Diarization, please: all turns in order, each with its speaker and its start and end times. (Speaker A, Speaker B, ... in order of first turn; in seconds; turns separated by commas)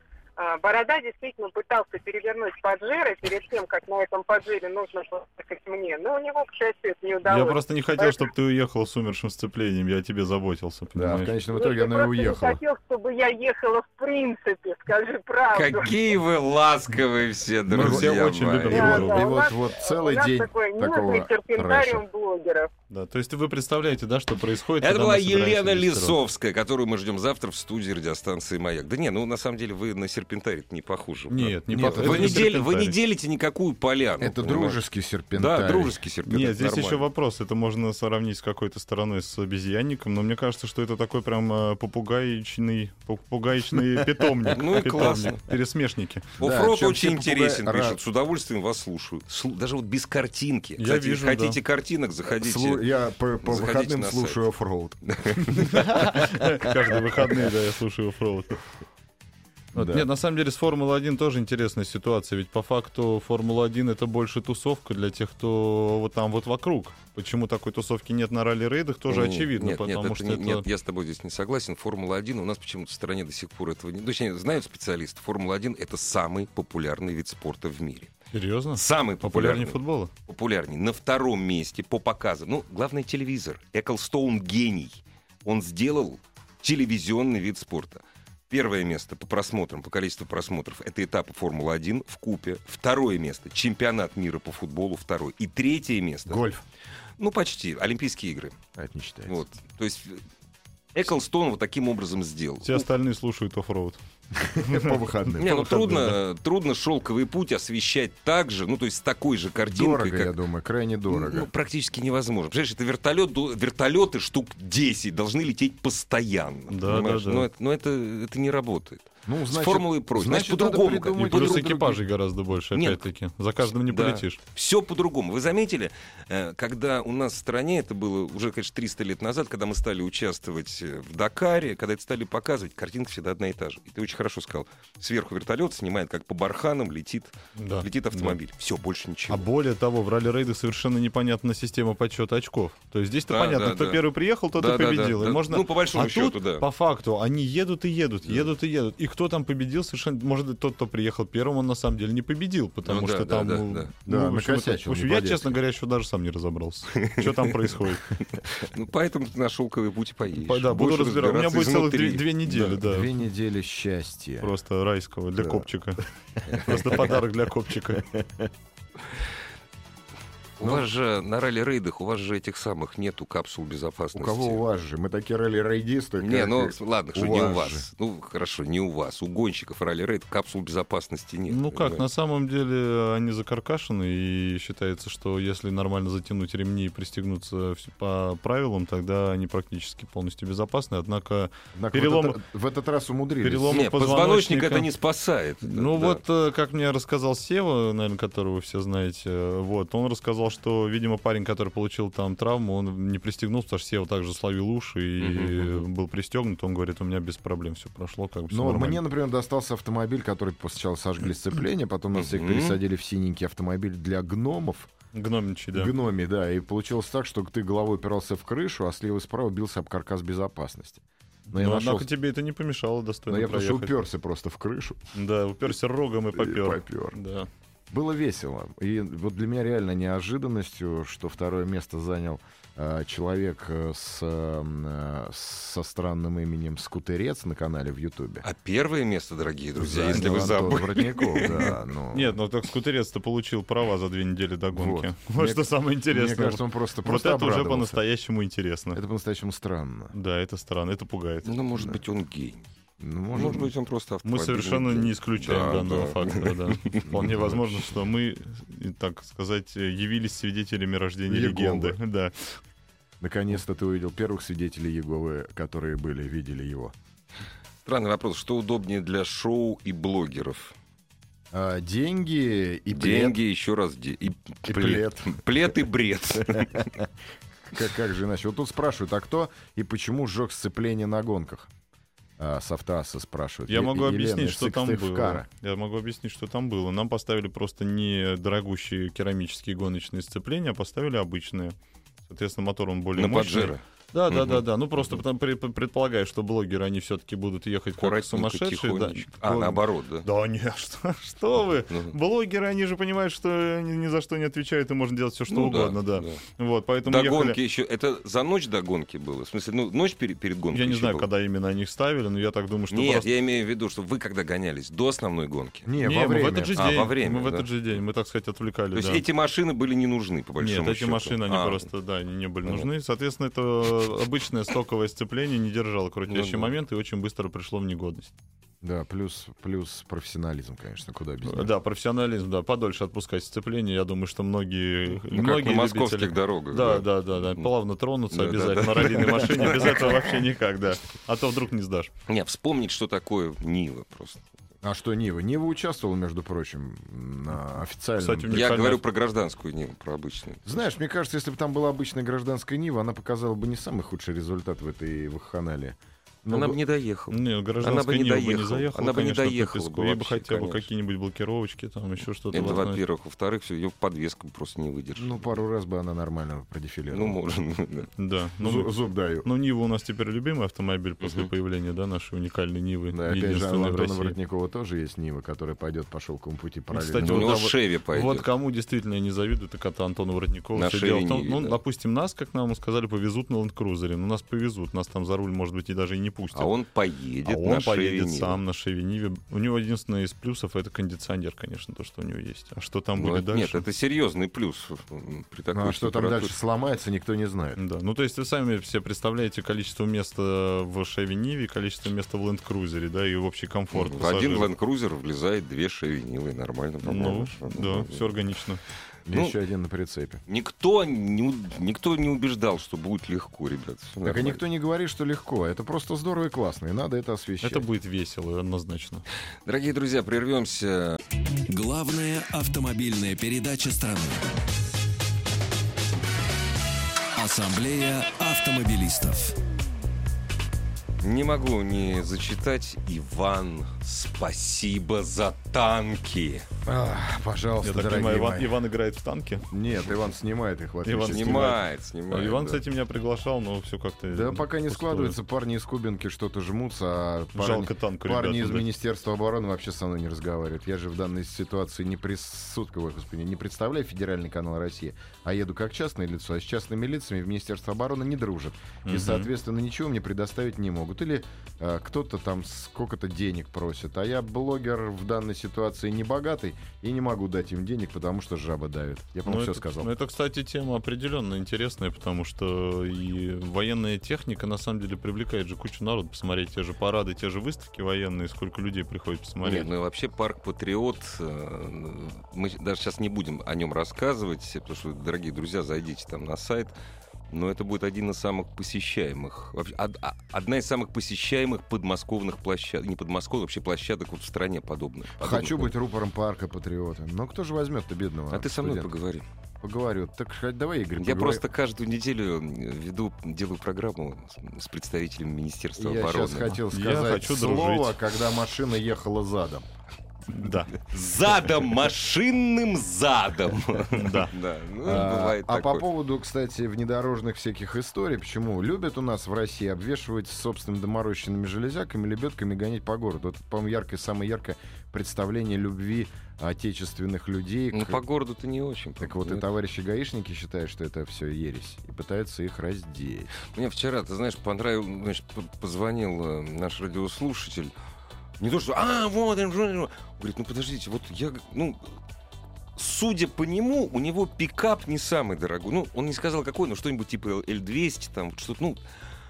Speaker A: 0.4-8.3, Speaker B: 7.2-11.3, Speaker C: 10.9-12.6, Speaker A: 11.5-15.9, Speaker D: 15.5-19.0, Speaker B: 17.7-19.3, Speaker C: 17.7-22.0, Speaker A: 18.7-22.7, Speaker B: 22.9-26.2, Speaker D: 24.8-34.8, Speaker B: 31.3-33.0, Speaker C: 31.7-32.5, Speaker C: 34.2-36.0, Speaker D: 35.3-37.0, Speaker B: 36.3-46.3, Speaker C: 44.0-44.6, Speaker D: 44.5-45.4, Speaker D: 46.4-52.9, Speaker C: 46.4-48.0, Speaker B: 50.8-51.6, Speaker C: 52.4-56.8, Speaker D: 53.4-54.4, Speaker D: 55.0-55.9, Speaker B: 55.7-58.6, Speaker C: 59.8-60.1, Speaker B: 59.8-70.7, Speaker D: 69.1-78.1, Speaker B: 78.3-80.1, Speaker D: 78.7-96.5, Speaker C: 96.3-96.6, Speaker D: 97.2-98.6, Speaker C: 98.8-99.4, Speaker D: 99.3-100.2, Speaker D: 101.0-102.9, Speaker B: 102.6-104.0, Speaker C: 104.3-106.2, Speaker B: 104.7-105.0, Speaker D: 105.4-110.3, Speaker C: 109.7-111.5, Speaker D: 111.1-122.0, Speaker B: 116.7-117.5, Speaker C: 119.3-122.0, Speaker B: 121.2-124.4, Speaker D: 122.7-123.1, Speaker D: 123.7-139.5, Speaker B: 137.6-138.4, Speaker B: 139.3-158.1, Speaker D: 143.3-144.0, Speaker D: 144.6-146.7, Speaker D: 152.8-153.9, Speaker C: 154.1-155.6, Speaker D: 156.9-157.4, Speaker D: 158.2-162.8, Speaker B: 160.4-163.1, Speaker C: 162.6-164.5, Speaker B: 164.4-168.1, Speaker C: 165.4-165.7, Speaker C: 168.0-168.5, Speaker D: 170.6-174.6, Speaker C: 174.1-177.9, Speaker D: 176.2-182.0, Speaker B: 181.5-192.4, Speaker C: 191.8-193.8, Speaker B: 193.4-194.9, Speaker D: 193.7-196.2, Speaker B: 195.6-209.0, Speaker D: 205.2-205.8, Speaker C: 208.5-214.9, Speaker D: 212.1-212.8, Speaker B: 215.1-215.9, Speaker C: 215.7-222.1, Speaker B: 221.5-223.9, Speaker C: 223.3-225.0, Speaker B: 225.1-227.5, Speaker C: 226.3-227.2, Speaker C: 227.9-238.5, Speaker D: 238.4-241.8, Speaker C: 239.8-242.4, Speaker B: 240.1-240.6, Speaker B: 241.5-249.0, Speaker C: 244.7-248.0, Speaker C: 248.9-250.2, Speaker B: 250.1-251.6, Speaker D: 251.4-252.6, Speaker C: 253.0-253.7, Speaker D: 253.3-257.6, Speaker B: 254.2-262.6, Speaker C: 261.3-262.0, Speaker C: 263.2-266.9, Speaker D: 267.9-270.8, Speaker C: 271.5-273.4, Speaker D: 272.9-276.9, Speaker C: 274.7-275.7, Speaker C: 276.4-277.1, Speaker C: 277.7-281.7, Speaker C: 282.4-285.5, Speaker B: 283.7-291.8, Speaker B: 292.3-307.6, Speaker D: 293.2-295.2, Speaker D: 298.0-300.3, Speaker D: 301.9-302.2, Speaker D: 305.5-306.4, Speaker D: 307.1-311.3, Speaker B: 310.7-313.3, Speaker D: 312.9-315.9, Speaker C: 315.9-316.8, Speaker B: 316.0-319.2, Speaker D: 316.8-317.7, Speaker D: 318.9-321.9, Speaker B: 320.6-328.3, Speaker D: 326.3-326.7, Speaker C: 328.8-331.7, Speaker B: 331.5-342.1, Speaker D: 335.1-337.7, Speaker D: 338.3-340.4, Speaker D: 342.3-344.5, Speaker C: 344.8-348.7, Speaker B: 348.2-349.0, Speaker D: 348.5-350.9, Speaker C: 350.7-356.8, Speaker D: 356.5-360.9, Speaker B: 357.3-363.0, Speaker D: 362.5-365.5, Speaker C: 365.2-367.4, Speaker D: 367.1-368.1, Speaker B: 368.2-368.9, Speaker C: 368.6-369.5, Speaker B: 369.4-374.4, Speaker D: 371.2-371.5, Speaker C: 373.1-377.6, Speaker B: 376.9-386.7, Speaker D: 377.2-378.5, Speaker D: 380.8-381.8, Speaker D: 386.5-388.6, Speaker B: 387.4-393.9, Speaker D: 393.2-396.5, Speaker C: 395.7-397.8, Speaker B: 397.8-404.7, Speaker D: 403.9-408.3, Speaker B: 407.0-408.8, Speaker C: 409.3-410.4, Speaker D: 409.3-409.6, Speaker D: 410.5-414.6, Speaker C: 414.2-417.9, Speaker B: 417.6-419.2, Speaker D: 419.7-421.2, Speaker E: 421.7-424.4, Speaker E: 427.4-429.6, Speaker D: 431.2-436.7, Speaker C: 436.9-438.8, Speaker B: 437.8-439.7, Speaker C: 439.7-441.8, Speaker B: 441.1-445.4, Speaker D: 441.3-442.8, Speaker C: 444.3-470.1, Speaker B: 447.6-448.9, Speaker B: 459.1-459.5, Speaker B: 469.4-479.9, Speaker D: 479.6-487.0, Speaker D: 487.5-495.9, Speaker C: 495.4-499.1, Speaker D: 498.5-499.4, Speaker C: 499.8-501.6, Speaker D: 501.2-506.8, Speaker C: 506.0-509.9, Speaker B: 506.8-508.2, Speaker B: 510.5-511.0, Speaker D: 511.0-516.1, Speaker B: 514.1-514.5, Speaker C: 515.0-528.2, Speaker D: 527.9-529.7, Speaker C: 529.2-533.5, Speaker D: 533.7-537.9, Speaker D: 538.6-542.0, Speaker D: 543.0-549.0